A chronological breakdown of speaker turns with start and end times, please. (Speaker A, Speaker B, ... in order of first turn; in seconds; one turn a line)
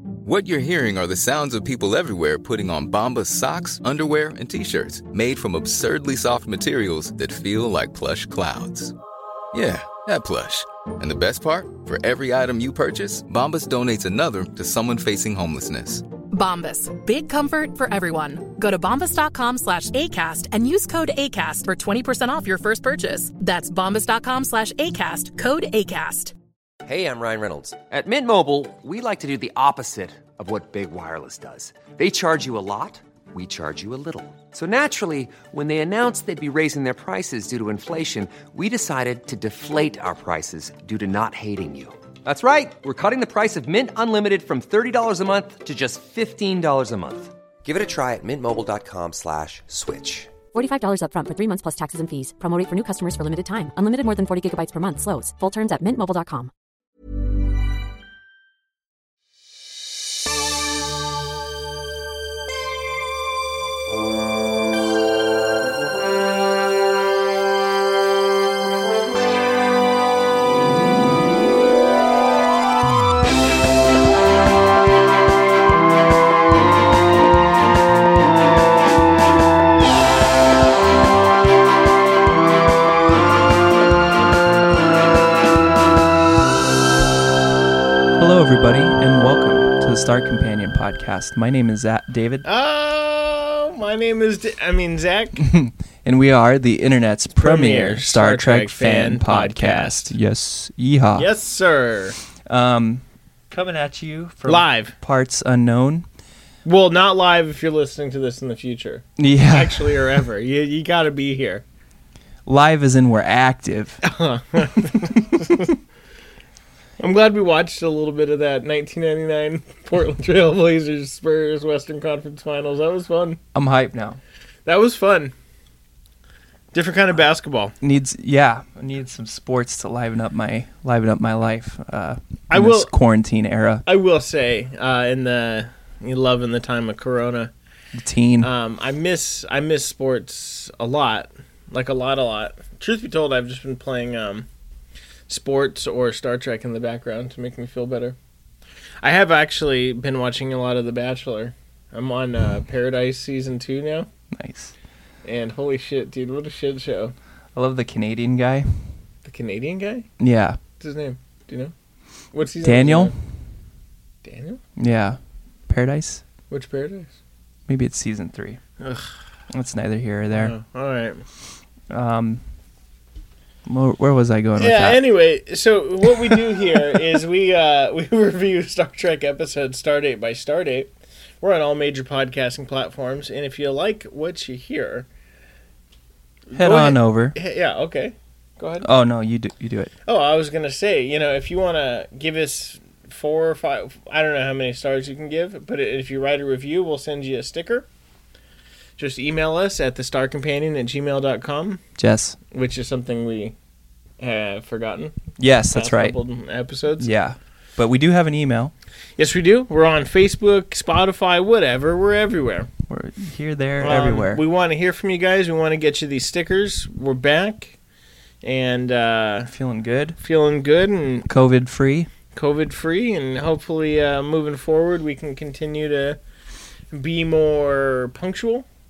Speaker A: 0.2-8.9
Speaker A: 9.5-16.0
Speaker B: 16.3-26.3
Speaker C: 26.8-50.3
Speaker D: 50.5-56.5
Speaker E: 88.2-92.5
Speaker F: 92.4-95.4
Speaker E: 95.3-101.3
Speaker F: 97.3-100.1
Speaker F: 101.2-102.2
Speaker E: 102.5-106.0
Speaker F: 104.4-104.9
Speaker F: 106.6-111.6
Speaker E: 109.2-109.9
Speaker E: 112.5-114.0
Speaker F: 114.0-115.7
Speaker F: 117.0-123.4
Speaker E: 123.5-124.2
Speaker F: 124.7-125.3
Speaker F: 126.7-127.7
Speaker E: 127.8-133.8
Speaker F: 132.5-132.9
Speaker F: 133.8-137.5
Speaker E: 137.9-138.5
Speaker F: 138.4-144.5
Speaker F: 145.3-148.2
Speaker F: 149.0-154.1
Speaker E: 154.3-154.7
Speaker F: 155.2-157.1
Speaker E: 157.5-158.8
Speaker F: 159.2-160.1
Speaker E: 160.2-160.6
Speaker F: 160.8-161.7
Speaker F: 162.3-163.1
Speaker E: 162.6-163.1
Speaker F: 164.2-164.6
Speaker E: 164.8-166.2
Speaker F: 166.5-167.1
Speaker E: 167.7-168.6
Speaker F: 168.8-169.1
Speaker E: 169.5-170.5
Speaker F: 170.3-171.2
Speaker E: 171.9-172.4
Speaker E: 173.7-175.0
Speaker F: 174.6-185.1
Speaker E: 176.0-177.0
Speaker F: 186.5-188.9
Speaker E: 186.5-187.3
Speaker E: 188.8-189.9
Speaker F: 190.1-197.8
Speaker F: 199.0-201.8
Speaker E: 202.0-202.4
Speaker F: 202.5-203.5
Speaker F: 204.2-205.1
Speaker E: 205.4-206.2
Speaker F: 205.7-207.1
Speaker E: 207.0-208.7
Speaker F: 209.2-212.7
Speaker E: 212.9-214.4
Speaker F: 213.8-217.8
Speaker F: 218.4-219.5
Speaker E: 219.5-220.2
Speaker F: 220.2-221.2
Speaker E: 221.2-222.1
Speaker F: 222.3-226.2
Speaker F: 226.9-228.7